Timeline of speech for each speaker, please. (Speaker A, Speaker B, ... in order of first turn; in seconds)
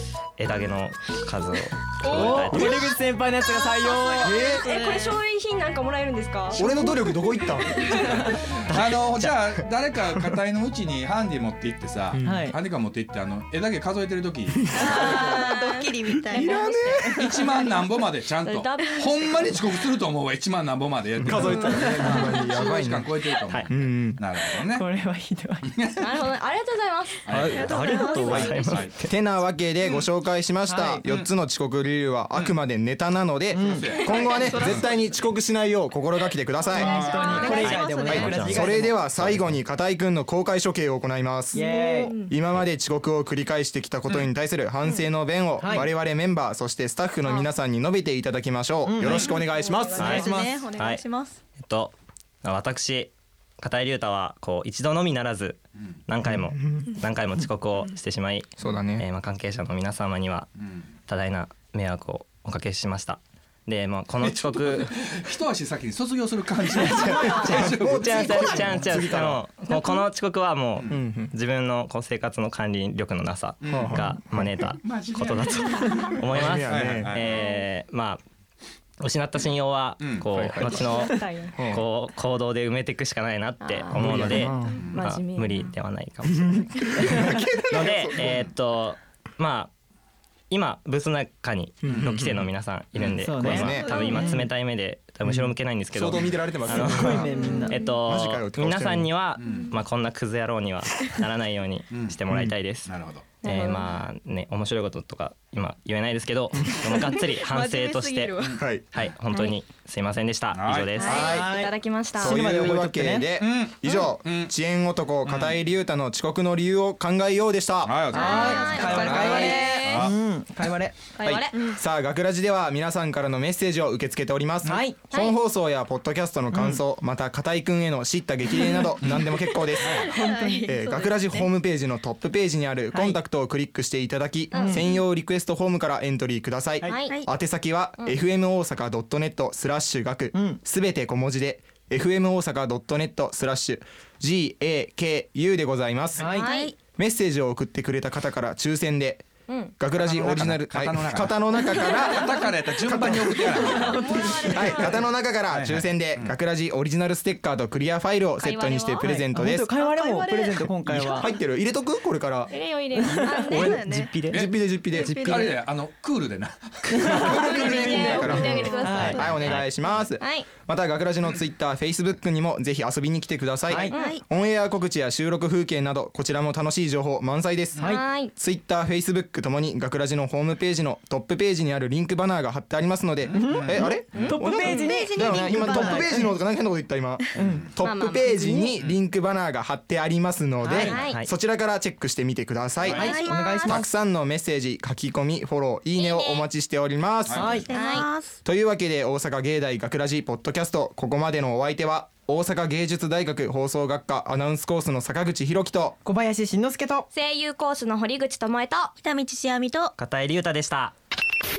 Speaker A: 0.4-2.9, 23.4-23.7, 27.3-29.1, 37.5-38.7, 39.2-39.5, 50.0-51.0, 51.6-60.5, 61.1-65.0, 67.3-78.2, 79.0-89.7, 90.5-111.3, 169.4-169.7, 190.8-191.3, 210.0-210.9
Speaker B: 2.0-2.9, 3.4-6.8, 7.6-8.6, 14.7-17.9, 18.4-19.8, 26.0-28.9, 34.0-34.3, 36.7-38.3, 41.5-42.4, 49.1-50.3, 67.0-67.6, 69.7-70.0, 75.7-76.2, 77.2-77.6, 80.6-81.7, 83.6-85.7, 93.8-94.4, 97.4-98.0, 103.4-104.0, 106.7-108.4, 110.9-112.3, 118.1-120.1, 121.2-121.8, 125.1-125.4, 129.8-131.5, 134.5-135.0, 136.8-137.2, 146.2-146.8, 149.5-149.8, 153.3-155.1, 158.4-159.2, 161.0-161.2, 162.5-163.8, 167.2-170.5, 173.9-174.2, 177.8-178.3, 187.8-188.7, 190.7-191.2, 192.9-193.8, 196.0-196.4, 197.7-198.1, 207.1-208.9
Speaker C: 2.1-4.3, 12.2-12.6, 24.7-25.8, 30.6-31.0, 33.5-33.9, 36.7-39.1, 41.5-42.1, 45.6-45.9, 48.8-49.3, 93.2-93.7, 96.7-97.8, 111.2-113.3, 118.1-121.1, 124.6-125.0, 126.5-126.8, 130.1-130.7, 132.9-133.2, 134.5-134.9, 140.3-140.6, 146.2-146.5, 159.0-161.3, 163.0-164.3, 166.9-169.3, 173.7-174.0, 183.3-186.3, 187.4-187.7, 188.2-188.7, 190.6-190.9, 192.9-193.9, 197.3-197.7, 206.0-207.1
Speaker D: 2.3-2.8, 4.2-4.7, 6.5-8.0, 8.7-9.6, 12.1-12.5, 16.3-17.3, 21.2-24.2, 28.3-37.0, 38.1-41.6, 42.3-50.6, 56.2-56.9, 58.6-59.1, 66.8-69.5, 70.9-71.3, 73.7-74.6, 76.3-77.2, 80.3-81.0, 81.5-81.8, 83.9-84.9, 86.3-88.5, 91.8-92.5, 93.3-94.3, 95.2-99.2, 108.6-108.9, 111.0-111.6, 112.2-118.2, 118.8-119.6, 121.2-130.0, 130.6-146.4, 146.9-149.3, 149.8-153.7, 154.5-159.7, 160.8-162.6, 163.3-165.6, 167.0-197.6, 198.4-206.0
Speaker E: 3.9-5.2, 14.7-16.7, 21.4-22.1, 27.4-28.4, 34.0-34.8, 36.9-38.7, 49.9-51.4, 93.8-94.1, 107.7-108.6, 118.2-118.9, 130.1-130.8, 146.4-146.7, 159.8-160.7, 163.5-164.2, 164.9-165.5, 168.4-168.8, 173.9-174.2, 184.5-186.3, 197.7-198.3, 209.0-209.9
Speaker F: 8.1-14.8, 17.0-24.9, 25.7-26.2, 27.2-28.9, 31.1-31.3, 33.6-35.0, 36.8-37.5, 64.2-69.2, 73.6-74.0, 74.7-77.2, 80.0-80.7, 84.6-85.0, 91.8-92.2, 93.0-93.3, 99.4-99.7, 101.9-102.2, 102.8-103.4, 110.5-111.0, 113.3-114.5, 115.2-115.6, 117.8-120.1, 129.0-129.3, 149.9-156.3, 164.2-168.3, 183.3-184.3, 187.3-187.8, 192.8-193.2, 197.2-197.6